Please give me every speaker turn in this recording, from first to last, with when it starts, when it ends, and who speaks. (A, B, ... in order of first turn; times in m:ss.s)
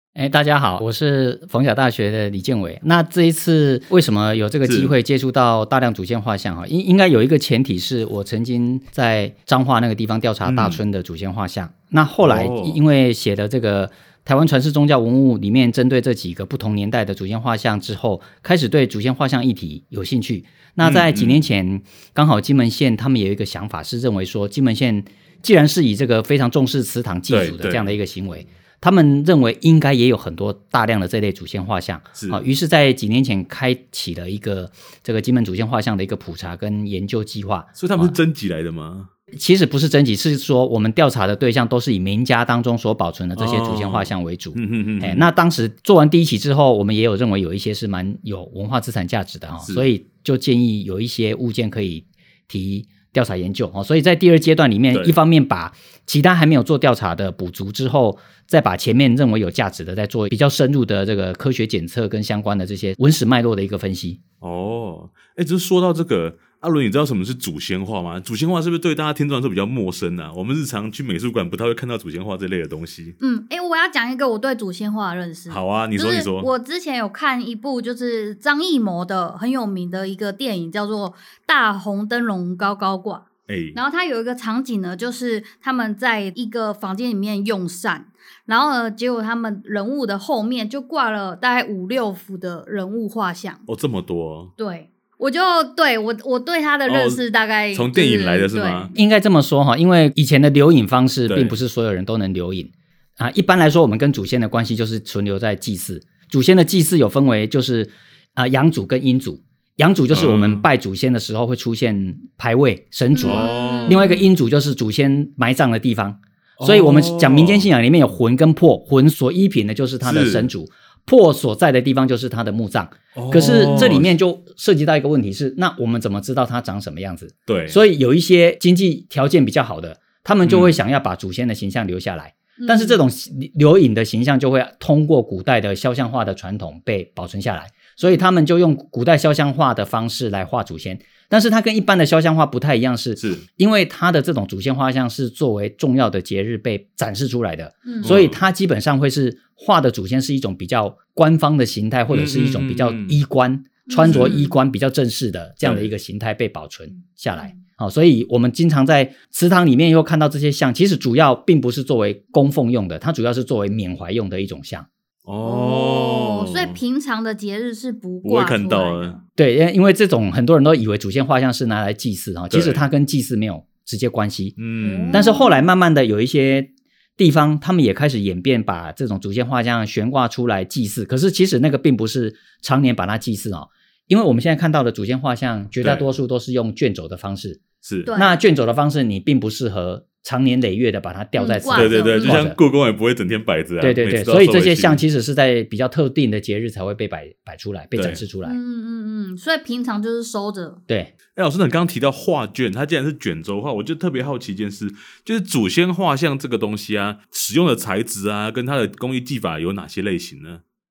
0:00.2-0:38.2 A
0:04.6-0:04.9 B
0:10.4-0:10.8 B
0:12.2-0:12.8 B
0:20.8-0:21.4 B
0:27.3-0:27.9 B
0:37.8-0:39.1 B
0:39.3-1:04.2 A
0:43.4-0:45.3 B
1:04.4-1:13.2 B
1:13.2-1:33.6 C
1:15.5-1:16.5 B
1:23.5-1:23.8 B
1:33.7-1:34.5 B
1:34.6-1:38.9 C
1:36.9-1:37.2 B
1:37.7-1:38.9 B
1:38.9-2:44.9 A
1:41.3-1:41.6 B
1:50.1-1:50.6 B
1:53.2-1:54.2 C
1:53.2-1:54.2 B
1:56.6-1:57.7 B
2:00.0-2:00.5 B
2:03.1-2:04.1 B
2:07.5-2:07.8 B
2:10.4-2:10.8 B
2:12.6-2:13.0 C
2:23.2-2:23.4 B
2:27.9-2:28.2 C
2:28.0-2:28.4 B
2:32.1-2:33.2 B
2:33.9-2:34.5 C
2:34.0-2:34.4 B
2:35.6-2:35.9 B
2:45.3-2:46.8 B
2:45.4-2:49.2 C
2:48.2-2:49.2 B
2:49.4-2:54.6 A
2:52.5-2:52.8 B
2:54.6-2:55.3 B
2:54.8-2:55.6 C
2:55.1-3:07.6 A
3:05.8-3:06.1 B
3:07.8-3:08.1 B
3:08.1-3:08.4 C
3:08.1-3:12.6 A
3:11.4-3:12.4 C
3:11.7-3:15.0 B
3:13.8-3:18.6 A
3:18.0-3:18.2 B
3:18.4-3:20.8 C
3:20.9-3:21.1 A
3:21.3-3:30.6 B